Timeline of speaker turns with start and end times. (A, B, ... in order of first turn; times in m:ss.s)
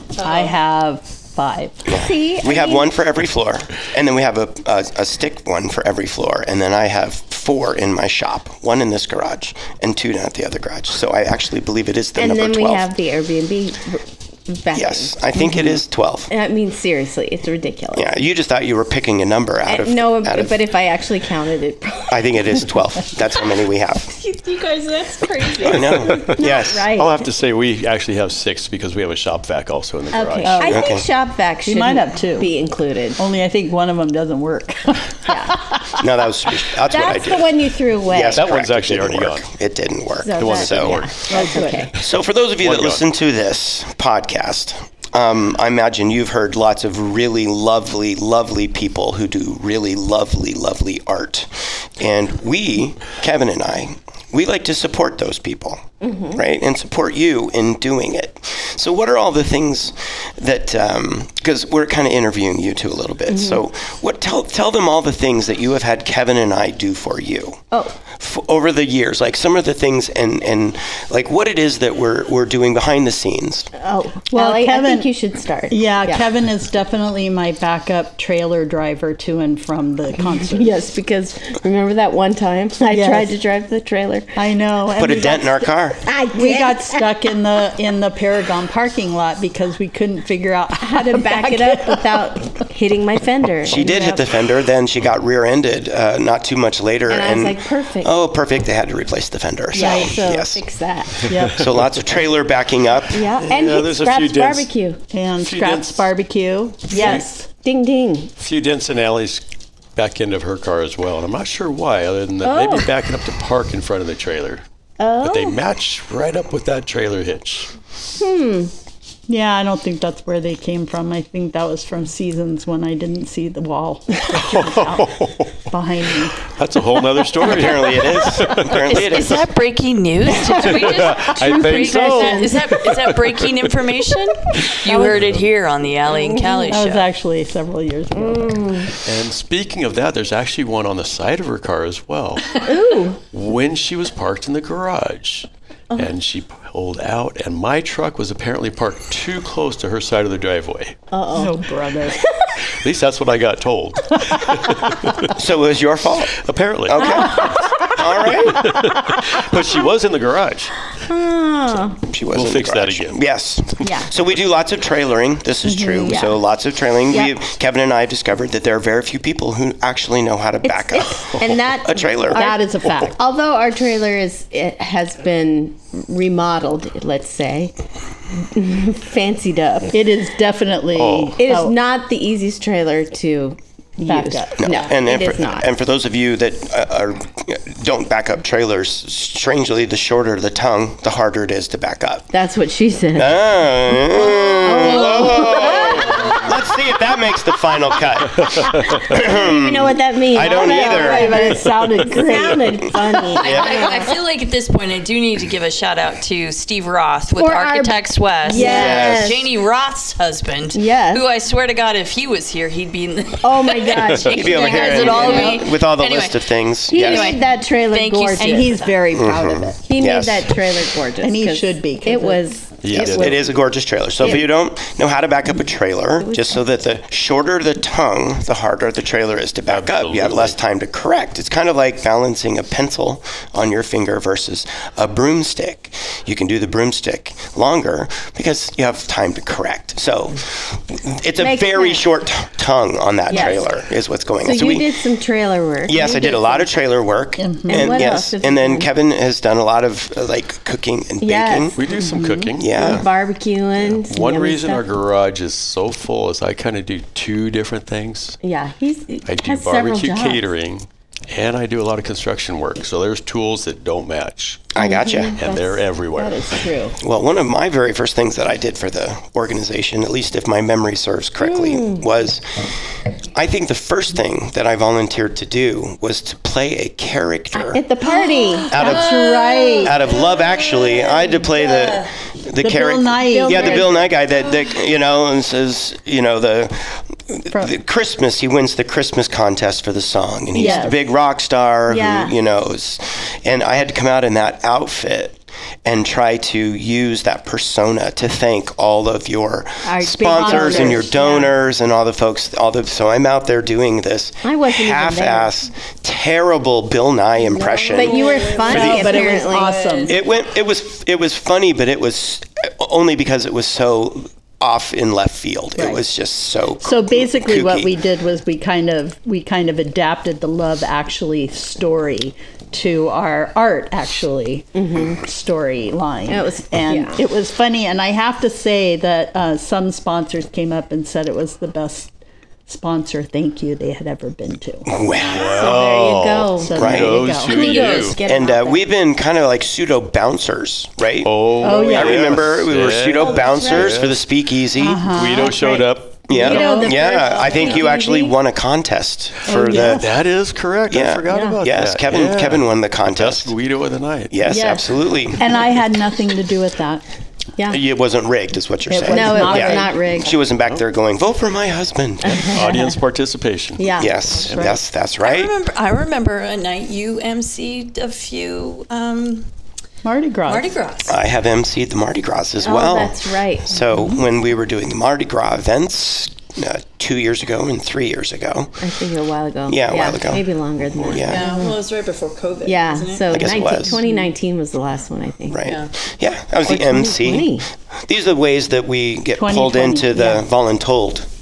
0:00.2-0:00.5 A
0:00.2-0:01.8 B
0:01.9-0:12.8 C
0:01.9-0:02.9 D
0:12.2-0:18.1 D
0:14.7-0:16.3 C
0:17.9-0:20.6 C
0:19.7-0:22.4 D
0:22.1-0:24.1 C
0:24.1-0:26.0 A
0:25.6-0:26.9 C
0:25.7-0:30.6 E
0:26.0-0:27.2 D
0:30.1-0:33.2 D
0:30.4-0:30.9 B
0:30.6-0:31.0 C
0:31.6-0:32.5 B
0:33.2-0:35.8 B
0:35.3-0:35.5 D
0:36.0-0:37.5 C
0:36.9-0:38.5 D
0:38.0-0:41.1 C
0:38.3-0:39.5 E
0:40.2-0:42.0 D
0:40.4-0:41.2 E
0:41.3-0:41.9 B
0:41.9-1:07.6 C
0:42.6-0:43.0 E
0:56.0-0:56.4 D
1:03.3-1:03.6 D
1:08.2-1:13.7 C
1:13.8-1:16.3 D
1:14.3-1:15.1 B
1:15.7-1:20.7 B
1:20.4-1:24.3 D
1:22.9-1:23.3 B
1:24.4-1:25.7 B
1:25.0-1:26.0 C
1:26.0-1:27.1 D
1:26.3-1:32.4 B
1:30.8-1:34.2 D
1:33.6-1:40.6 C
1:33.8-1:34.2 B
1:37.1-1:38.1 D
1:39.7-1:41.3 D
1:39.8-1:40.2 B
1:41.3-1:41.7 B
1:41.5-1:43.3 C
1:43.1-1:45.0 D
1:43.4-1:44.7 E
1:45.1-1:47.5 B
1:45.4-1:46.0 E
1:46.9-1:48.3 D
1:48.4-1:54.6 E
1:52.4-1:52.9 D
1:55.0-1:55.6 D
1:55.2-1:57.7 E
1:58.2-1:58.7 D
1:59.3-2:06.4 B
2:04.3-2:05.5 E
2:06.4-2:09.0 E
2:07.4-2:09.4 C
2:08.9-2:17.1 A
2:10.4-2:12.6 D
2:10.5-2:13.7 E
2:14.9-2:15.2 B
2:15.0-2:15.5 E
2:16.1-2:16.8 D
2:16.7-2:18.8 B
2:18.3-2:18.9 D
2:19.0-2:31.0 E
2:22.6-2:23.2 D
2:31.1-2:31.6 D
2:31.3-2:32.2 B
2:32.2-2:32.5 D
2:32.7-2:35.4 E
2:35.4-2:38.8 C
2:36.3-2:37.7 E
2:37.0-2:38.0 D
2:38.4-2:40.8 E
2:41.0-2:42.0 D
2:42.0-2:52.4 C
2:42.3-2:43.2 E
2:43.8-2:44.1 D
2:45.6-2:46.2 B
2:46.0-2:46.4 D
2:50.6-2:57.7 D
2:52.3-2:53.2 B
2:58.4-3:00.0 D
2:59.9-3:01.8 B
3:00.9-3:01.4 E
3:01.4-3:05.7 D
3:04.0-3:04.7 B
3:04.6-3:12.3 C
3:12.3-3:16.6 D
3:13.1-3:21.4 C
3:15.2-3:16.4 A
3:18.6-3:19.0 E
3:18.8-3:24.1 D
3:20.5-3:22.6 B
3:23.3-3:38.9 A
3:23.4-3:23.8 C
3:27.4-3:29.5 D
3:28.6-3:29.3 C
3:30.7-3:31.3 D
3:33.4-3:35.6 D
3:34.2-3:37.3 C
3:35.2-3:35.5 B
3:36.9-3:38.9 D
3:38.4-3:39.8 B
3:39.1-3:40.6 C
3:39.8-3:43.5 D
3:41.2-3:43.0 B
3:42.8-3:43.4 E
3:42.9-4:04.9 C
3:46.2-3:46.6 D
3:49.7-3:50.6 E
4:01.4-4:02.0 D
4:03.3-4:03.7 D
4:04.4-4:06.7 D
4:05.9-4:11.8 C
4:07.4-4:08.0 B
4:07.6-4:08.9 D
4:11.2-4:11.8 D
4:11.8-4:13.0 E
4:11.9-4:12.5 B
4:12.6-4:13.0 C
4:12.8-4:14.8 D
4:13.8-4:18.4 E
4:18.4-4:20.4 D
4:19.3-4:24.7 E
4:24.7-4:25.4 C
4:24.8-4:27.0 D
4:25.4-4:26.6 E
4:27.0-4:32.7 C
4:31.4-4:32.0 D
4:33.4-4:37.8 C
4:37.6-4:39.0 D
4:38.1-4:42.1 A
4:38.7-4:39.1 C
4:38.7-4:39.9 B
4:39.8-5:09.0 C
4:42.6-4:43.9 B
4:43.2-4:44.1 D
4:50.5-4:51.0 D
4:50.6-4:50.9 B
4:51.9-4:52.3 D
4:59.8-5:01.5 D
5:00.3-5:01.1 B
5:04.4-5:05.5 D
5:07.5-5:10.2 A
5:07.6-5:09.9 D
5:08.6-5:10.1 B
5:10.1-5:17.9 C
5:16.8-5:32.1 B
5:24.8-5:25.2 D
5:26.3-5:27.2 D
5:32.7-5:34.9 B
5:34.9-5:35.9 C
5:35.3-5:38.9 D
5:35.3-5:38.2 E
5:36.6-5:37.6 B
5:36.7-5:37.2 C
5:37.6-5:38.1 A
5:37.8-5:45.0 C
5:41.2-5:44.2 E
5:41.6-5:42.3 B
5:43.2-5:44.0 D
5:44.8-5:47.0 B
5:45.0-5:46.4 E
5:46.3-5:50.1 C
5:46.3-5:48.4 D
5:49.4-5:50.0 B
5:49.8-5:54.4 E
5:50.9-5:53.5 C
5:51.3-5:51.6 D
5:54.3-5:55.4 C
5:54.5-5:54.9 D
5:55.4-5:57.0 B
5:57.7-6:02.6 C
5:58.9-6:00.0 B
5:59.1-6:00.4 D
6:02.2-6:02.9 D
6:02.3-6:04.8 E
6:03.8-6:04.4 D
6:03.9-6:05.5 C
6:04.5-6:04.8 B
6:05.2-6:09.5 A
6:10.0-6:10.7 B
6:10.4-6:11.2 A
6:11.0-6:18.8 C
6:12.6-6:13.8 D
6:18.8-6:21.8 D
6:19.7-6:21.4 C
6:21.2-6:24.2 A
6:22.6-6:25.6 D
6:23.3-6:24.0 C
6:25.5-6:31.3 C
6:25.6-6:25.9 A
6:26.6-6:27.7 D
6:29.4-6:30.4 B